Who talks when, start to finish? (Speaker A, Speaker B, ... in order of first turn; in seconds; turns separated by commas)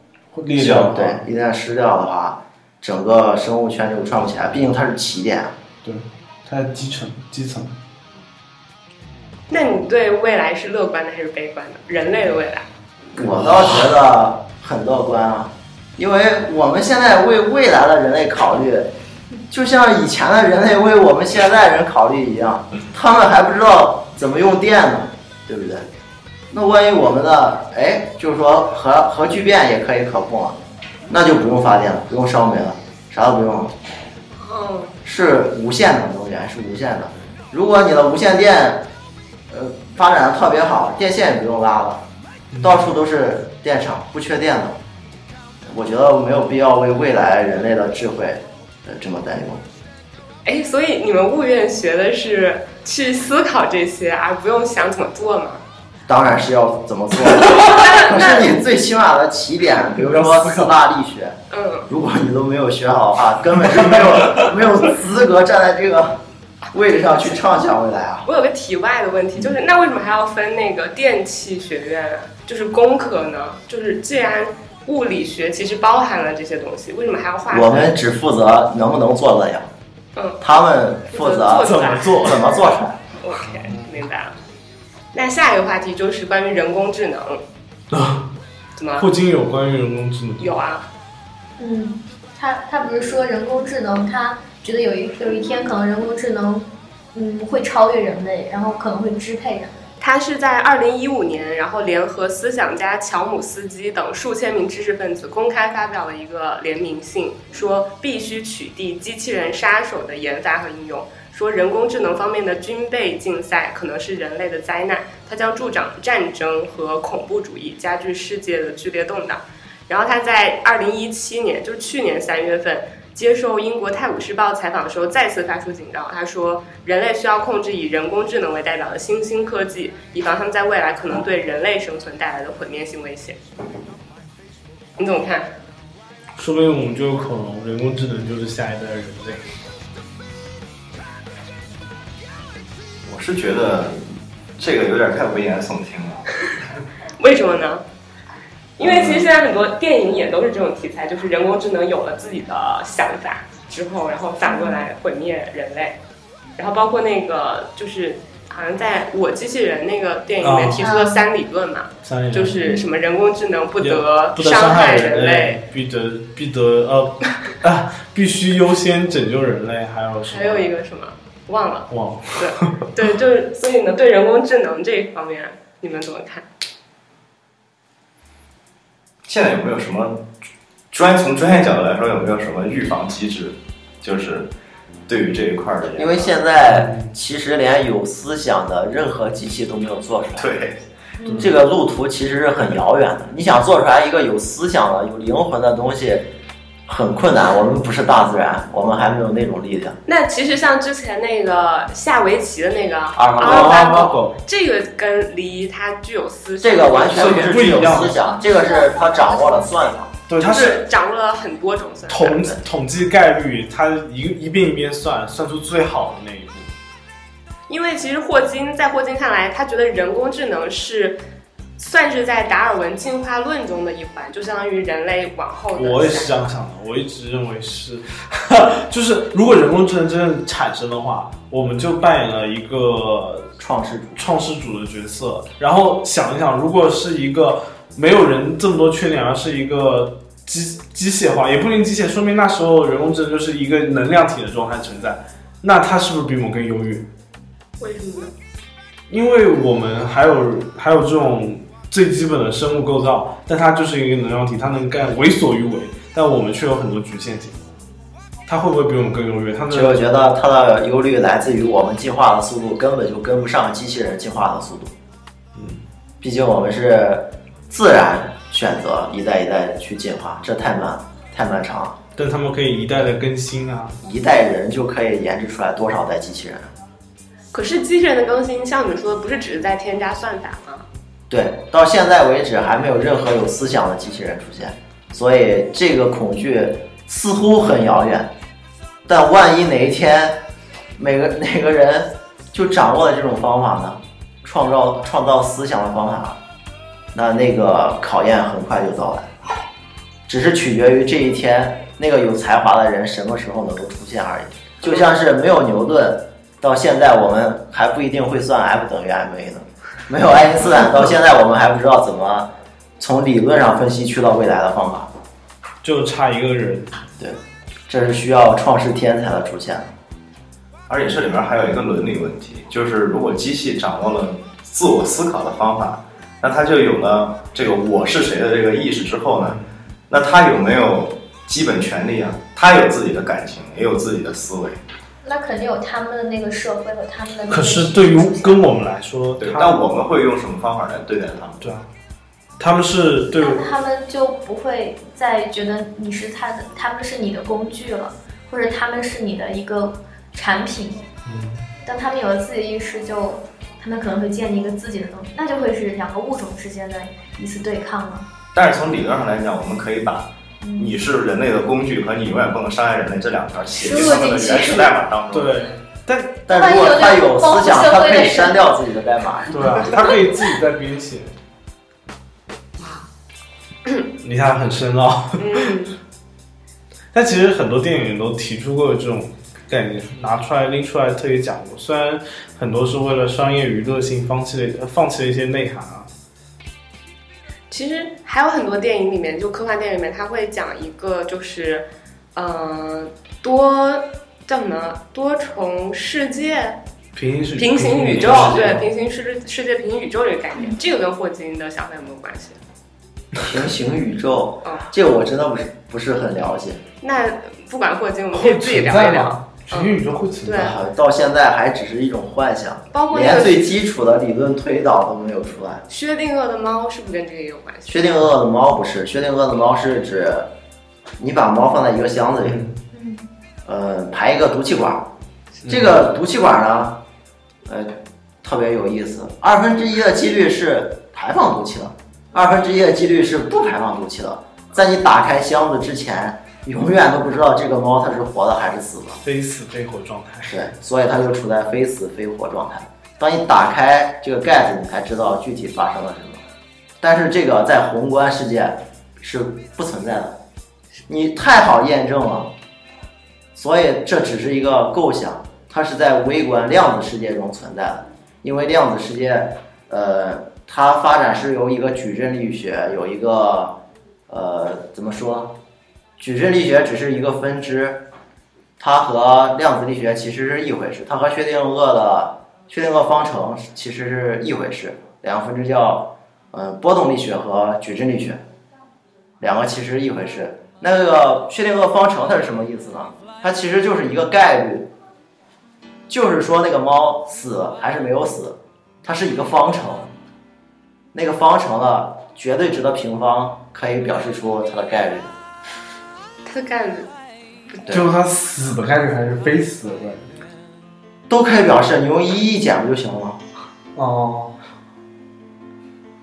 Speaker A: 0.3-1.2, Speaker B: 0.6-5.5, Speaker A: 5.8-7.7, Speaker C: 9.5-12.7, Speaker B: 13.2-18.9, Speaker B: 19.5-25.9, Speaker B: 26.5-30.6, Speaker B: 31.1-33.7, Speaker C: 34.4-35.0, Speaker B: 35.0-38.9, Speaker B: 39.5-42.1, Speaker A: 42.5-42.8, Speaker B: 42.6-44.8, Speaker B: 45.6-49.6, Speaker C: 50.5-55.6, Speaker B: 56.1-61.4, Speaker C: 57.5-58.5, Speaker A: 60.0-60.7, Speaker C: 61.5-61.9, Speaker B: 61.9-66.2, Speaker B: 66.7-68.3, Speaker C: 68.2-78.0, Speaker B: 77.5-79.7, Speaker C: 80.2-80.4, Speaker B: 80.4-83.0, Speaker C: 81.1-82.6, Speaker A: 81.7-82.4, Speaker C: 83.2-84.4, Speaker A: 83.5-83.8, Speaker C: 85.1-87.4, Speaker A: 87.9-88.3, Speaker C: 88.8-89.1, Speaker A: 89.0-90.5, Speaker C: 90.4-90.9, Speaker D: 91.6-99.9, Speaker C: 100.0-133.4, Speaker C: 135.0-135.5, Speaker A: 136.4-139.4, Speaker E: 143.1-144.1, Speaker E: 144.6-146.3, Speaker C: 147.2-147.8, Speaker C: 148.8-156.0, Speaker E: 148.8-149.2, Speaker D: 154.4-154.8, Speaker C: 156.6-165.6, Speaker A: 160.4-160.9, Speaker D: 160.8-161.2, Speaker A: 162.0-162.6, Speaker A: 163.8-170.7, Speaker C: 170.3-176.5, Speaker A: 171.9-172.9, Speaker E: 179.3-180.2, Speaker E: 180.9-184.5, Speaker E: 185.1-186.3, Speaker B: 185.9-190.5, Speaker A: 186.6-187.1, Speaker E: 190.4-190.8, Speaker D: 191.2-191.5, Speaker A: 191.2-191.5, Speaker B: 191.4-196.3, Speaker B: 196.9-200.0, Speaker C: 200.1-207.6, Speaker B: 203.2-204.1, Speaker A: 203.4-204.4, Speaker B: 206.6-210.1, Speaker E: 207.1-208.2, Speaker A: 207.4-208.2, Speaker D: 208.3-209.9, Speaker A: 210.3-210.8, Speaker C: 210.4-212.6, Speaker A: 212.1-216.7, Speaker C: 217.7-221.2, Speaker C: 221.8-226.4, Speaker A: 225.8-233.5, Speaker B: 233.6-234.3, Speaker A: 234.2-247.1, Speaker C: 247.8-248.3, Speaker A: 249.1-257.6, Speaker A: 258.5-260.1, Speaker B: 259.7-264.9, Speaker A: 265.6-265.8, Speaker B: 266.2-272.0, Speaker A: 272.2-274.0, Speaker B: 274.0-276.7, Speaker C: 277.5-280.9, Speaker B: 281.3-288.3, Speaker B: 289.1-290.4, Speaker B: 291.0-296.4, Speaker B: 297.1-299.3, Speaker B: 300.3-315.1, Speaker A: 315.8-316.9, Speaker B: 317.2-319.9, Speaker E: 320.9-329.6, Speaker E: 330.1-334.8, Speaker D: 335.2-338.7, Speaker A: 337.5-339.8, Speaker E: 339.4-341.7, Speaker A: 341.6-341.9, Speaker A: 342.6-343.7, Speaker D: 343.4-351.1, Speaker A: 351.3-351.7, Speaker D: 351.8-358.3, Speaker E: 358.5-365.6, Speaker D: 360.6-361.0, Speaker D: 363.7-364.9, Speaker A: 365.3-366.4, Speaker D: 366.5-368.6, Speaker B: 366.5-369.9, Speaker A: 369.5-371.3, Speaker C: 372.8-373.1, Speaker A: 374.2-375.7, Speaker C: 375.4-375.9, Speaker A: 377.1-386.1, Speaker C: 387.7-396.8, Speaker A: 397.2-398.9, Speaker C: 397.6-402.6, Speaker E: 398.1-398.8, Speaker B: 403.4-406.8, Speaker C: 407.0-410.8, Speaker A: 408.3-410.8, Speaker B: 410.6-415.8, Speaker C: 412.9-413.8, Speaker C: 415.9-418.2, Speaker B: 417.9-420.5, Speaker B: 421.2-422.6, Speaker A: 422.4-422.8, Speaker D: 422.9-423.2, Speaker B: 423.7-425.1, Speaker A: 425.6-426.0, Speaker B: 425.7-427.0, Speaker B: 427.7-439.2, Speaker A: 439.2-440.5, Speaker B: 440.4-446.4, Speaker B: 447.0-450.4, Speaker B: 451.1-452.5, Speaker B: 453.6-463.8, Speaker B: 464.3-465.6, Speaker B: 466.2-468.0, Speaker B: 468.8-478.4, Speaker B: 479.4-484.9, Speaker B: 486.1-490.1, Speaker B: 491.1-495.3, Speaker C: 496.5-497.1, Speaker A: 497.9-500.3, Speaker B: 501.3-503.4, Speaker A: 504.0-504.6